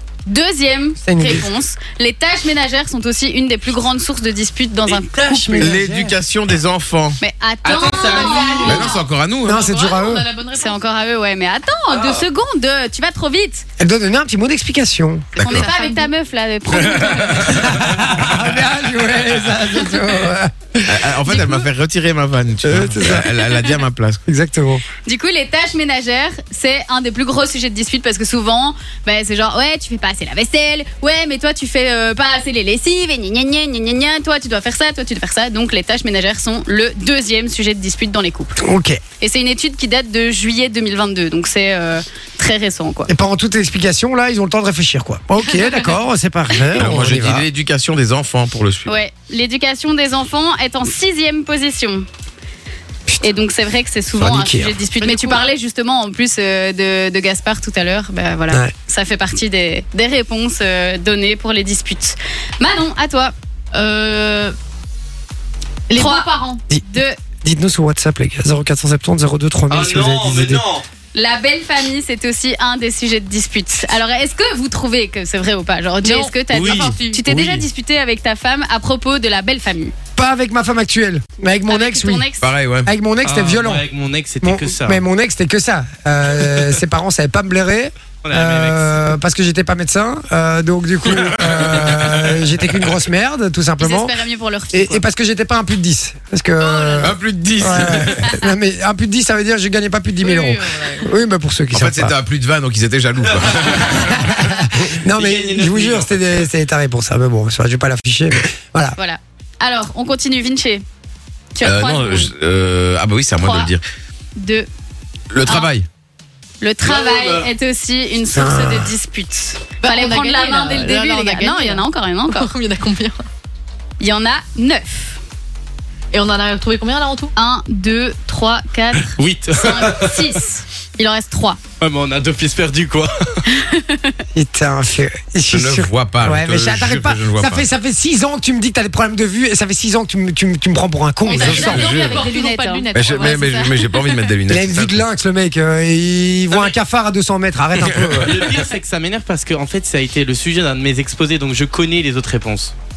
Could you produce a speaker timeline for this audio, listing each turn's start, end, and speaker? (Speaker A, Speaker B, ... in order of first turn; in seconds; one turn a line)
Speaker A: 0.3-5.8
Speaker B: 1.0-1.5
Speaker C: 4.9-6.2
Speaker D: 5.6-7.2
Speaker A: 7.2-9.0
Speaker C: 7.6-8.9
Speaker E: 8.1-10.8
Speaker D: 8.6-9.7
Speaker B: 9.4-10.3
Speaker A: 10.6-13.7
Speaker C: 11.9-12.2
Speaker B: 13.8-15.4
Speaker D: 15.4-15.7
Speaker A: 15.4-17.7
Speaker E: 15.5-16.1
Speaker D: 16.7-18.1
Speaker B: 17.4-21.1
Speaker D: 20.9-24.2
Speaker A: 21.2-21.6
Speaker B: 22.6-23.2
Speaker B: 24.3-24.9
Speaker A: 25.0-38.6
Speaker B: 38.6-39.0
Speaker A: 39.2-43.1
Speaker B: 43.1-47.5
Speaker D: 46.7-49.0
Speaker A: 48.9-52.1
Speaker A: 53.2-63.3
Speaker B: 54.2-54.8
Speaker E: 54.9-55.4
Speaker E: 63.7-64.5
Speaker E: 65.9-66.6
Speaker A: 65.9-66.3
Speaker A: 66.9-67.2
Speaker B: 67.4-70.7
Speaker C: 69.7-70.9
Speaker A: 71.1-79.9
Speaker E: 76.0-77.2
Speaker C: 76.5-77.0
Speaker B: 77.3-77.7
Speaker B: 80.2-82.3
Speaker A: 81.7-82.5
Speaker D: 82.4-82.9
Speaker B: 82.9-83.8
Speaker C: 83.2-85.0
Speaker B: 84.4-94.1
Speaker C: 88.2-89.0
Speaker D: 91.4-92.4
Speaker A: 93.8-95.0
Speaker B: 94.7-102.1
Speaker E: 96.6-97.1
Speaker D: 97.0-98.3
Speaker E: 100.2-101.1
Speaker D: 101.7-104.4
Speaker C: 103.3-106.2
Speaker B: 104.1-109.0
Speaker A: 109.0-110.8
Speaker A: 111.5-112.3
Speaker D: 111.6-113.8
Speaker A: 113.4-113.7
Speaker A: 114.4-114.7
Speaker D: 115.3-115.9
Speaker A: 115.4-115.7
Speaker A: 116.6-122.5
Speaker C: 116.8-117.5
Speaker B: 118.3-118.9
Speaker E: 119.8-123.2
Speaker A: 124.0-125.2
Speaker E: 126.1-127.3
Speaker A: 127.4-131.6
Speaker C: 129.2-130.2
Speaker C: 131.8-133.4
Speaker A: 133.5-134.2
Speaker B: 134.3-141.8
Speaker D: 135.5-137.7
Speaker E: 141.3-143.8
Speaker D: 141.3-142.3
Speaker A: 141.4-143.2
Speaker D: 142.9-145.1
Speaker B: 144.5-148.4
Speaker D: 147.8-148.3
Speaker C: 148.2-152.7